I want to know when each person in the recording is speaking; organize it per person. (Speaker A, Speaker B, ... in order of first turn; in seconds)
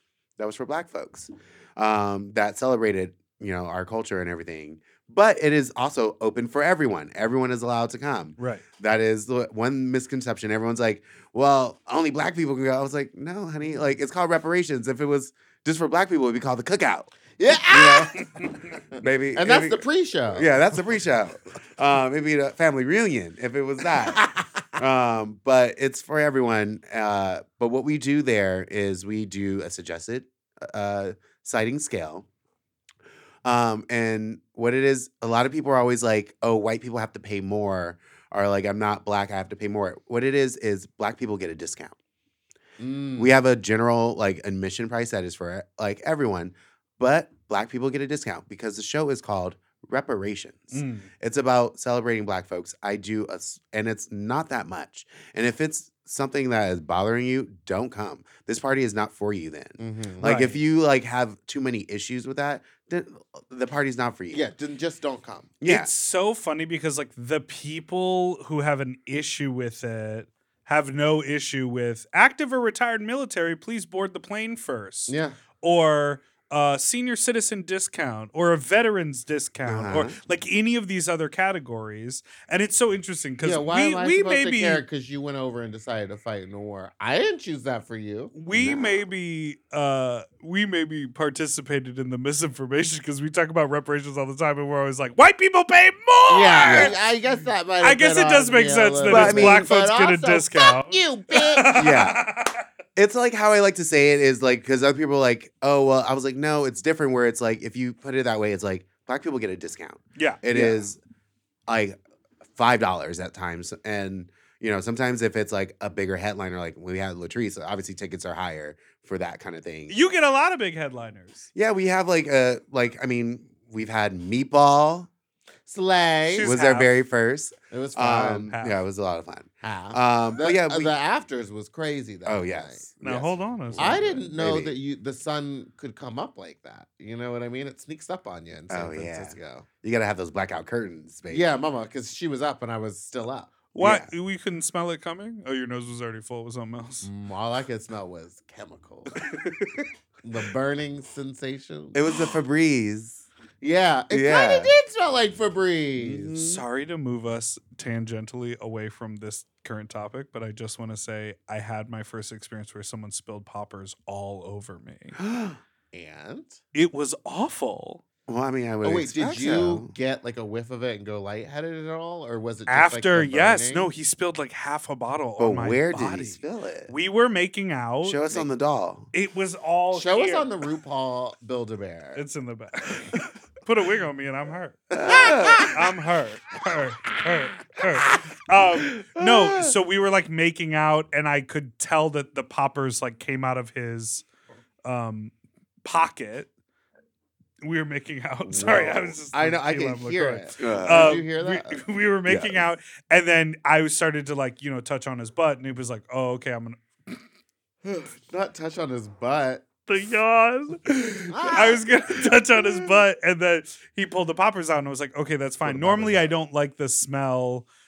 Speaker A: 0.4-17.1, 17.7-18.3, 19.0-24.2, 24.8-32.2, 33.4-41.9, 43.2-64.4, 65.6-65.9, 79.7-80.2, 88.5-88.9, 96.6-96.9, 99.1-99.7, 101.7-102.3, 103.0-111.0, 111.7-120.0, 121.5-125.1, 126.4-130.9, 132.2-134.7, 138.7-141.4, 143.8-144.1, 149.2-149.7, 151.9-153.2, 154.1-154.7, 156.0-156.6, 165.2-165.6, 168.3-169.9, 175.4-176.9, 178.0-179.1, 184.9-185.8, 188.9-189.7, 200.6-201.2, 202.2-202.6, 215.6-216.3
Speaker B: 8.4-8.6, 50.7-51.1, 60.2-60.6, 65.6-84.8, 88.3-97.0, 97.8-102.6, 110.2-110.4, 119.9-121.5, 126.3-126.9, 128.5-128.8, 133.0-134.3, 143.7-147.1, 156.4-165.2, 166.7-168.0, 172.7-178.4, 179.1-180.5, 182.1-194.2, 194.8-195.3, 195.8-196.5, 197.6-207.2, 209.8-217.7
Speaker C: 17.4-18.3, 18.9-20.8, 24.0-24.7, 42.8-43.3, 59.8-60.3, 64.3-65.5, 75.1-75.4, 83.4-88.3, 96.3-101.8, 110.5-110.8, 125.7-126.5, 127.7-128.5, 129.6-132.8, 133.8-139.7, 141.3-143.5, 147.0-149.2, 150.2-152.0, 153.6-156.4, 165.9-166.6, 168.8-173.9, 179.9-182.2, 185.0-185.7, 198.5-201.8, 207.8-209.7, 211.3-211.8